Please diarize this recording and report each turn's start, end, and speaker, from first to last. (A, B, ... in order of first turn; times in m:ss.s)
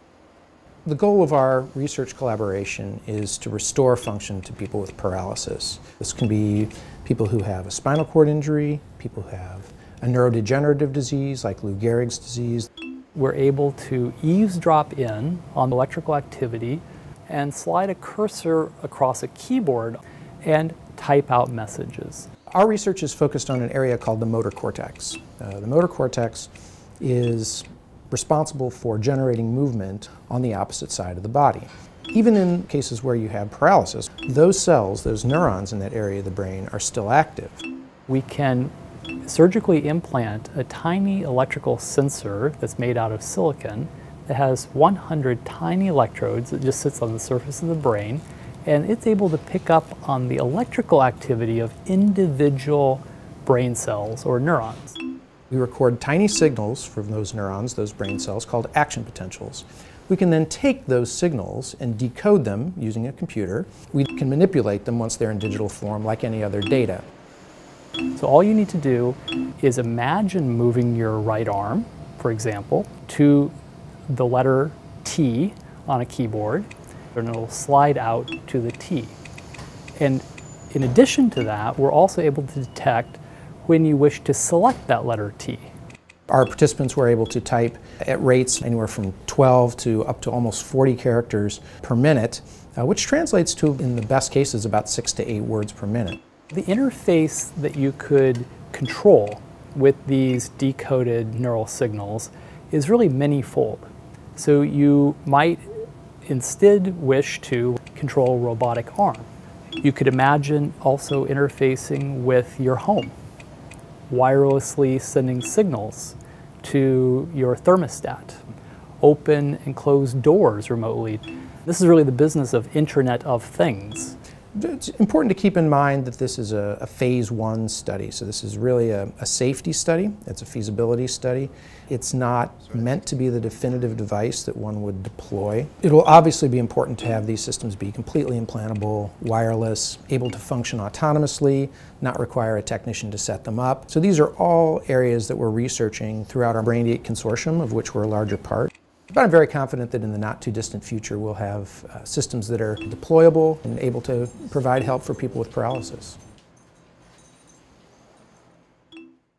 0:00.8-0:12.7 A
0:13.1-0:22.3 B
0:22.5-0:37.6 A
0:38.1-0:38.7 B
0:39.2-0:55.0 B
0:55.5-1:07.0 A
1:08.2-1:13.5 B
1:14.1-1:19.2 B
1:20.0-1:25.7 B
1:26.3-1:36.2 A
1:36.5-1:45.6 B
1:46.2-1:49.3 B
1:49.8-1:53.1 B
1:54.1-1:58.4 B
1:59.0-2:04.1 B
2:04.5-2:36.2 A